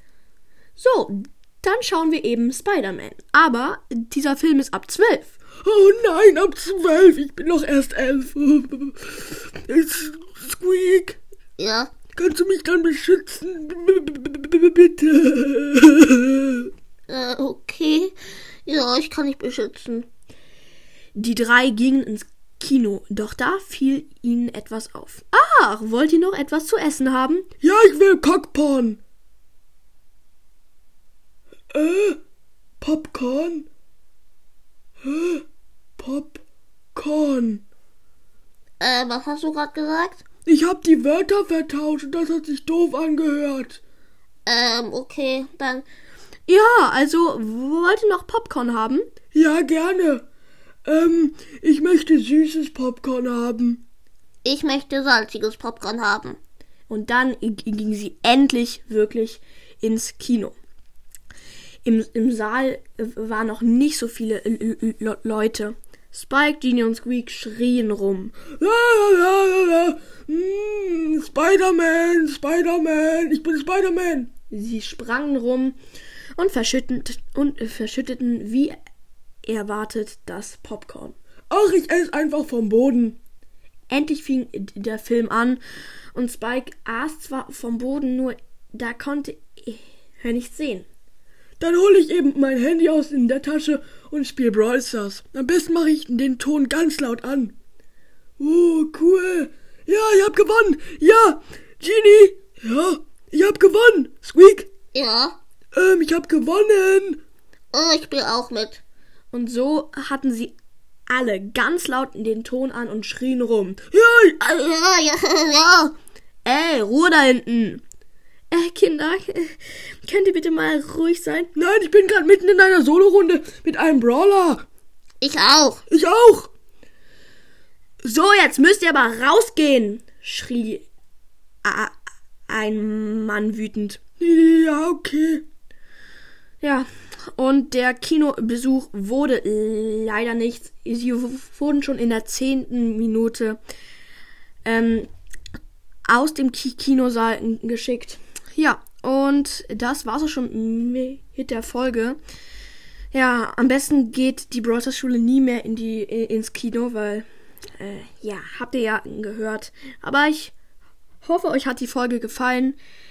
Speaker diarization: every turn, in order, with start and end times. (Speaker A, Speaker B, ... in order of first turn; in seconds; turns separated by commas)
Speaker A: 0.8-5.3, Speaker B: 5.6-11.2, Speaker C: 11.6-11.9, Speaker B: 12.1-16.7, Speaker C: 17.1-18.1, Speaker C: 18.7-20.1, Speaker A: 21.1-27.5, Speaker B: 27.6-29.0, Speaker B: 31.7-32.2, Speaker B: 32.8-33.7, Speaker B: 35.0-35.5, Speaker B: 36.0-36.4, Speaker B: 37.0-37.6, Speaker C: 38.8-40.2, Speaker B: 40.5-43.8, Speaker C: 44.5-45.9, Speaker A: 46.5-49.1, Speaker B: 49.3-50.2, Speaker B: 50.9-53.8, Speaker C: 54.4-56.4, Speaker A: 56.9-60.5, Speaker A: 61.9-68.4, Speaker B: 68.6-74.3, Speaker A: 74.5-75.8, Speaker A: 76.4-78.8, Speaker A: 79.4-81.2, Speaker B: 81.5-83.2, Speaker A: 83.9-85.6, Speaker A: 86.1-90.9, Speaker B: 91.6-97.5, Speaker B: 98.4-104.7, Speaker C: 104.9-105.4, Speaker B: 105.7-107.2, Speaker C: 107.7-108.8, Speaker A: 109.3-110.5, Speaker A: 111.1-113.8, Speaker B: 113.9-114.4, Speaker C: 114.4-115.9, Speaker A: 116.5-117.8, Speaker A: 118.5-121.5, Speaker B: 121.6-124.7, Speaker C: 125.2-125.8, Speaker B: 125.9-126.5, Speaker A: 128.0-130.9, Speaker A: 131.6-131.9, Speaker A: 132.5-134.0, Speaker B: 134.2-135.4, Speaker A: 136.6-143.6, Speaker A: 144.7-145.1, Speaker A: 146.1-152.2, Speaker A: 153.1-157.3, Speaker A: 157.8-160.5, Speaker A: 161.2-162.8